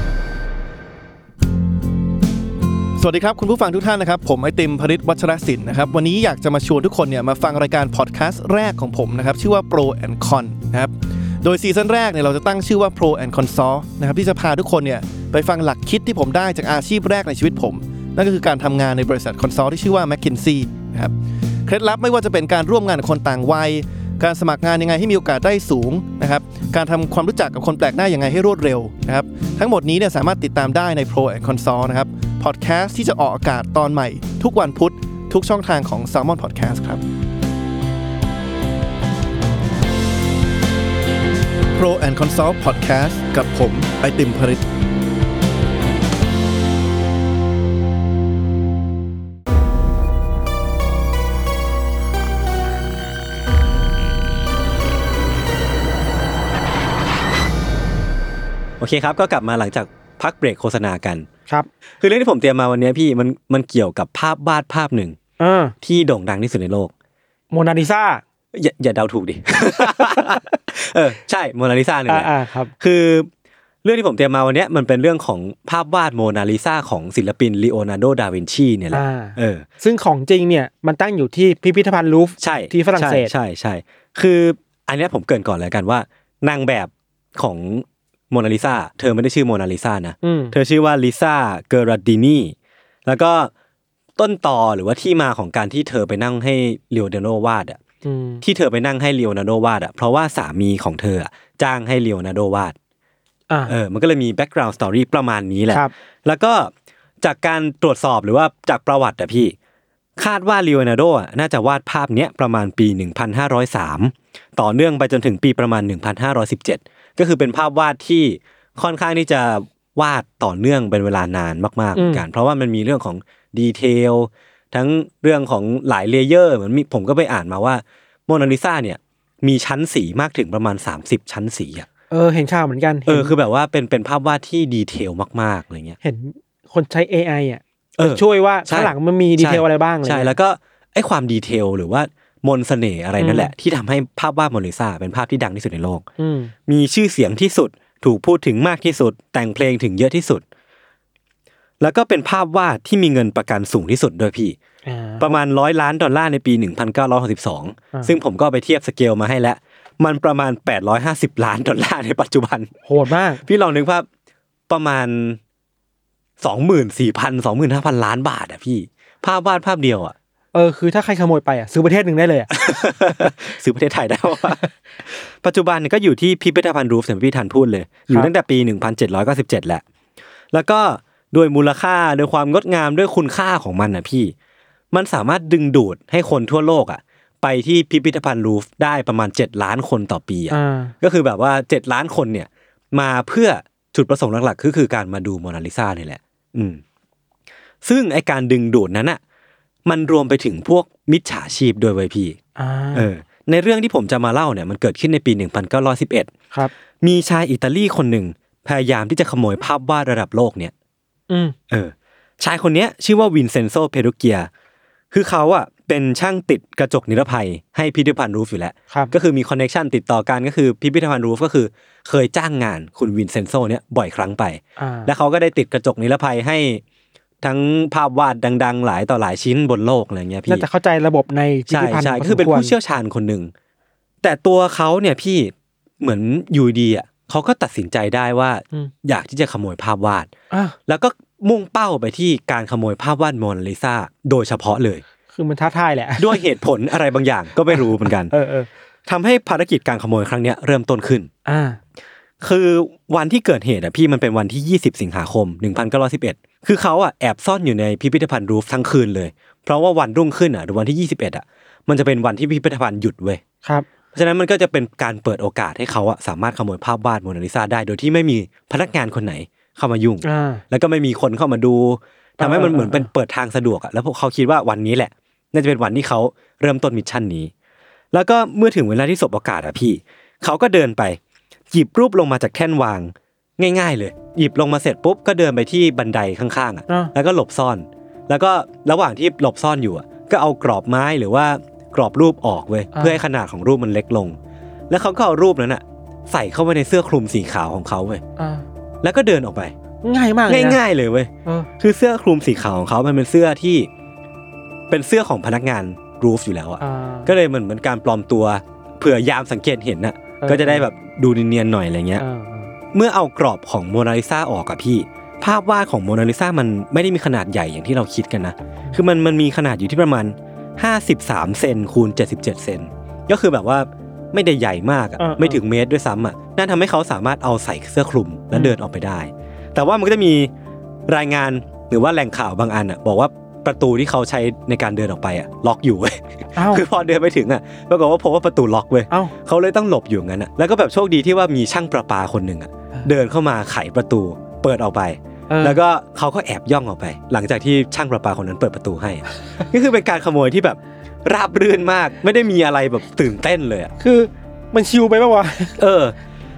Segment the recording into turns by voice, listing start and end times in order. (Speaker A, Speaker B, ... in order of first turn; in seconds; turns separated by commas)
Speaker A: 3.0-21.1, Speaker A: 21.6-37.0, Speaker A: 41.7-44.6, Speaker B: 58.8-61.3, Speaker B: 62.0-65.2, Speaker C: 65.4-65.7, Speaker B: 65.8-66.9, Speaker C: 67.5-68.2, Speaker B: 68.5-73.3, Speaker C: 69.8-70.2, Speaker C: 72.1-72.7, Speaker B: 73.8-79.6, Speaker C: 78.9-83.3, Speaker B: 82.4-92.5, Speaker C: 90.2-90.5, Speaker B: 93.0-93.5, Speaker B: 94.2-97.8, Speaker C: 98.0-98.4, Speaker B: 98.4-102.7, Speaker B: 103.7-106.7, Speaker B: 107.2-109.5, Speaker B: 110.2-131.9, Speaker C: 121.9-122.2, Speaker C: 132.1-133.3, Speaker B: 133.1-136.0, Speaker C: 136.0-140.3, Speaker B: 138.0-146.0, Speaker C: 143.2-143.5, Speaker C: 146.2-146.5, Speaker B: 146.7-150.4, Speaker B: 151.8-154.6, Speaker C: 154.8-155.4, Speaker B: 155.2-162.7, Speaker C: 162.8-163.4, Speaker B: 163.4-164.1, Speaker B: 164.7-165.4, Speaker B: 166.4-170.1, Speaker C: 170.5-172.5, Speaker B: 172.5-179.8, Speaker B: 180.5-184.3, Speaker B: 184.9-196.8, Speaker C: 190.5-190.9, Speaker B: 197.8-199.2, Speaker B: 199.8-202.4, Speaker C: 202.6-203.1, Speaker B: 202.9-206.3, Speaker B: 207.0-210.7, Speaker C: 211.3-211.5, Speaker B: 211.7-214.5, Speaker B: 215.1-226.8, Speaker C: 224.8-225.1, Speaker B: 227.4-230.6, Speaker C: 230.5-232.7, Speaker B: 231.7-233.5, Speaker B: 234.2-240.3, Speaker B: 240.9-245.0, Speaker C: 245.3-246.4, Speaker B: 246.2-248.3, Speaker C: 247.7-248.7, Speaker B: 249.1-251.3, Speaker C: 251.4-251.8, Speaker B: 252.4-263.4, Speaker B: 264.1-277.5, Speaker C: 270.2-270.6, Speaker C: 272.4-273.1, Speaker B: 278.1-281.2, Speaker B: 281.7-294.4, Speaker B: 294.9-298.2, Speaker C: 298.4-298.6, Speaker B: 299.0-299.7, Speaker C: 300.0-300.8, Speaker B: 300.5-303.9, Speaker B: 304.9-312.2, Speaker C: 306.8-307.3, Speaker C: 310.4-310.8, Speaker C: 312.2-312.7, Speaker B: 312.9-330.5, Speaker C: 325.2-325.6, Speaker B: 331.1-353.9, Speaker C: 336.6-336.8, Speaker C: 345.5-345.8, Speaker C: 354.0-355.8, Speaker B: 355.8-356.1